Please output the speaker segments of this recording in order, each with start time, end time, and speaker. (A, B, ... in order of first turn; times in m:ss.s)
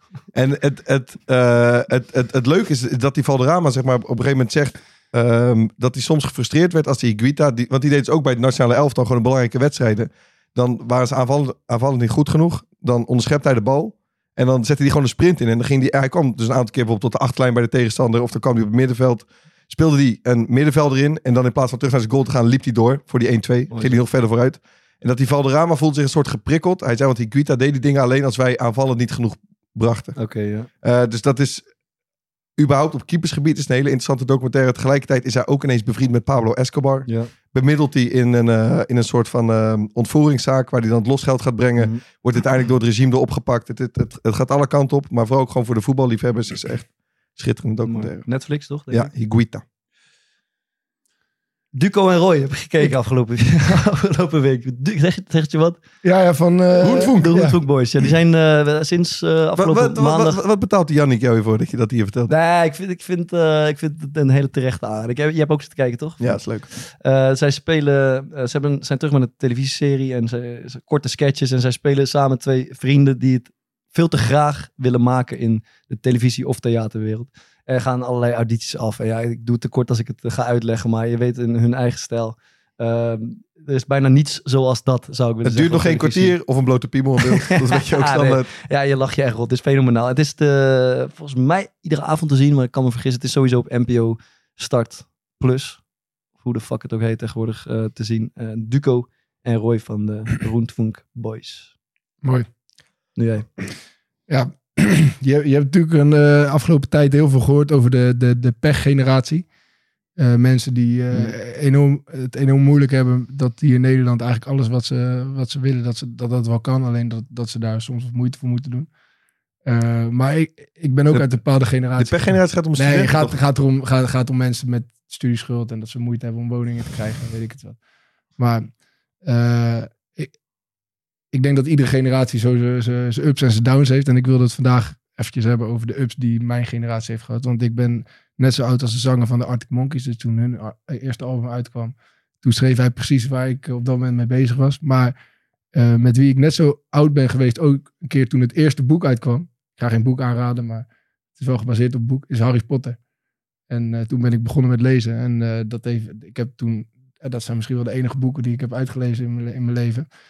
0:00.3-0:30.2 A
0:23.7-0:24.0 B
0:30.2-0:30.7 B
0:30.8-0:31.6 A
0:32.6-0:48.2 A
0:41.8-0:42.0 B
0:47.8-0:49.1 B
0:48.9-0:49.6 A
0:51.7-0:55.8 B
0:56.0-0:57.6 C
0:56.8-0:57.3 A
0:56.9-1:00.4 B
0:59.6-1:02.3 A
1:02.3-1:06.3 B
1:06.2-1:06.7 A
1:06.8-1:26.4 B
1:25.4-1:28.5 A
1:27.3-1:35.8 B
1:36.4-1:41.7 B
1:42.2-1:42.5 C
1:43.2-1:43.5 B
1:44.3-1:49.5 C
1:50.2-1:58.9 C
1:59.7-2:07.8 C
2:02.0-2:03.4 A
2:08.4-2:08.7 C
2:09.2-2:10.3 C
2:11.3-2:25.1 C
2:25.7-2:33.0 C
2:33.7-2:40.1 C